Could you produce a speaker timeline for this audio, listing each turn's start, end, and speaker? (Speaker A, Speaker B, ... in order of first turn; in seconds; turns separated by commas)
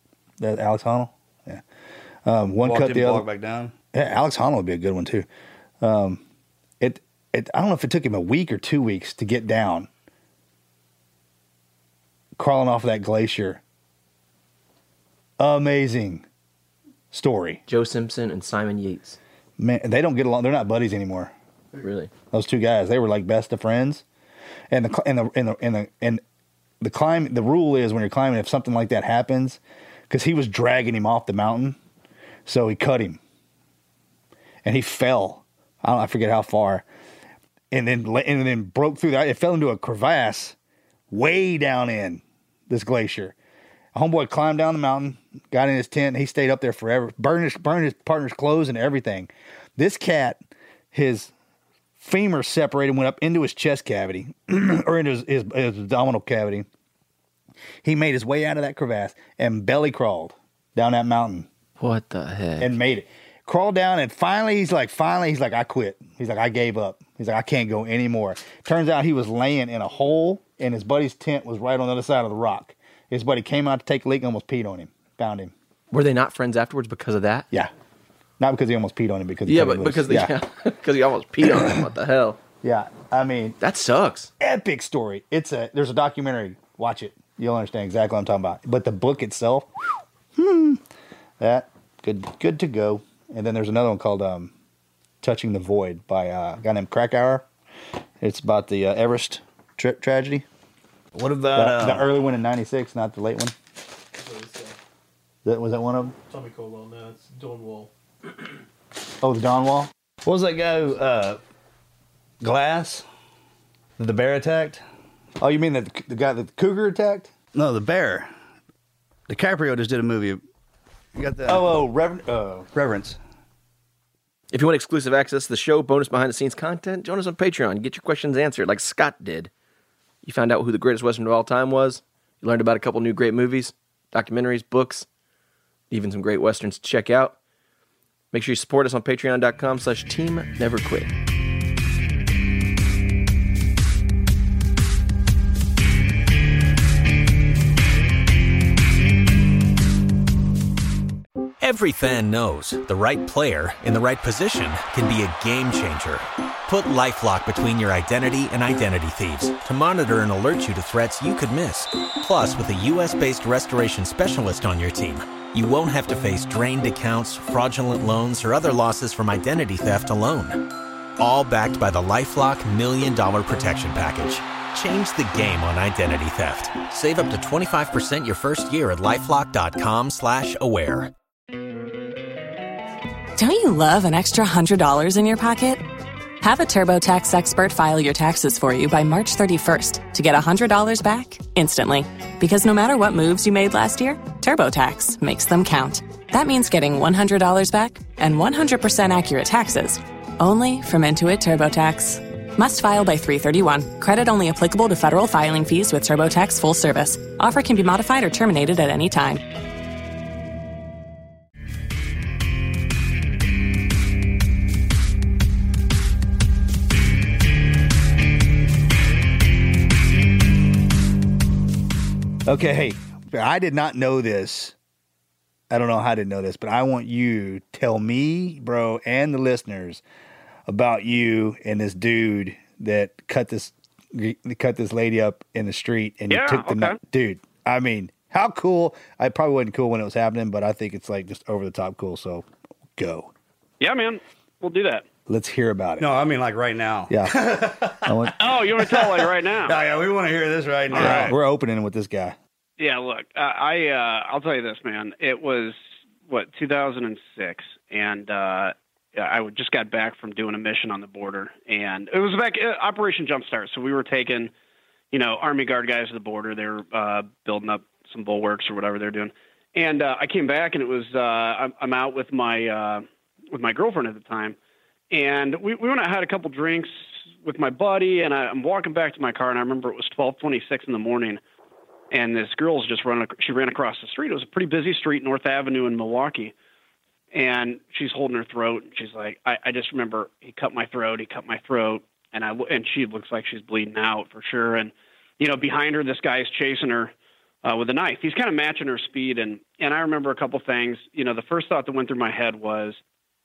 Speaker A: 0.4-1.6, Speaker A: 2.2-3.2, Speaker B: 2.6-3.7, Speaker A: 3.9-5.3, Speaker A: 5.8-6.2, Speaker A: 6.8-9.9, Speaker A: 12.3-13.6, Speaker A: 15.4-16.2, Speaker A: 17.1-17.6, Speaker C: 17.7-19.2, Speaker A: 19.6-21.3, Speaker C: 21.8-22.1, Speaker A: 22.3-24.0, Speaker A: 24.7-26.2, Speaker A: 26.8-31.8, Speaker A: 32.5-33.2, Speaker A: 34.6-36.8, Speaker A: 37.7-40.5, Speaker A: 41.1-43.3, Speaker A: 43.9-50.4, Speaker A: 50.9-51.3, Speaker A: 52.0-56.7, Speaker A: 57.8-61.5, Speaker C: 61.8-62.6, Speaker A: 62.6-75.5, Speaker C: 75.9-77.5, Speaker A: 78.4-80.4, Speaker C: 79.5-82.4, Speaker A: 81.5-81.7, Speaker A: 82.6-83.6, Speaker C: 83.6-84.3, Speaker A: 84.4-89.7, Speaker A: 90.3-90.8, Speaker A: 91.4-94.5, Speaker A: 95.2-97.5, Speaker A: 98.2-100.4, Speaker B: 101.1-102.1, Speaker A: 101.5-103.5, Speaker D: 104.2-104.8, Speaker A: 105.4-106.2, Speaker D: 106.3-107.9, Speaker A: 109.2-109.9, Speaker B: 110.2-111.4, Speaker B: 112.4-113.0, Speaker B: 114.0-114.8, Speaker A: 115.4-117.3, Speaker B: 117.5-118.3, Speaker B: 119.3-120.4, Speaker B: 121.1-121.8, Speaker A: 121.5-122.7, Speaker B: 122.7-123.2, Speaker C: 124.5-129.5, Speaker C: 130.2-135.0, Speaker C: 135.9-137.3, Speaker C: 138.3-141.1, Speaker E: 151.6-170.7, Speaker E: 171.2-181.1, Speaker F: 183.4-185.8, Speaker F: 186.4-209.4, Speaker A: 222.4-224.7, Speaker A: 225.7-230.0, Speaker A: 230.7-243.3, Speaker G: 236.3-237.0, Speaker G: 243.8-245.0, Speaker A: 245.3-246.1, Speaker B: 246.0-251.3, Speaker A: 247.1-247.3, Speaker A: 248.0-248.3, Speaker G: 248.4-249.8, Speaker G: 250.9-251.3, Speaker A: 250.9-252.4, Speaker G: 252.8-264.5, Speaker G: 265.1-274.6, Speaker G: 275.1-281.4, Speaker G: 282.1-286.5, Speaker G: 287.3-297.1, Speaker G: 297.6-303.0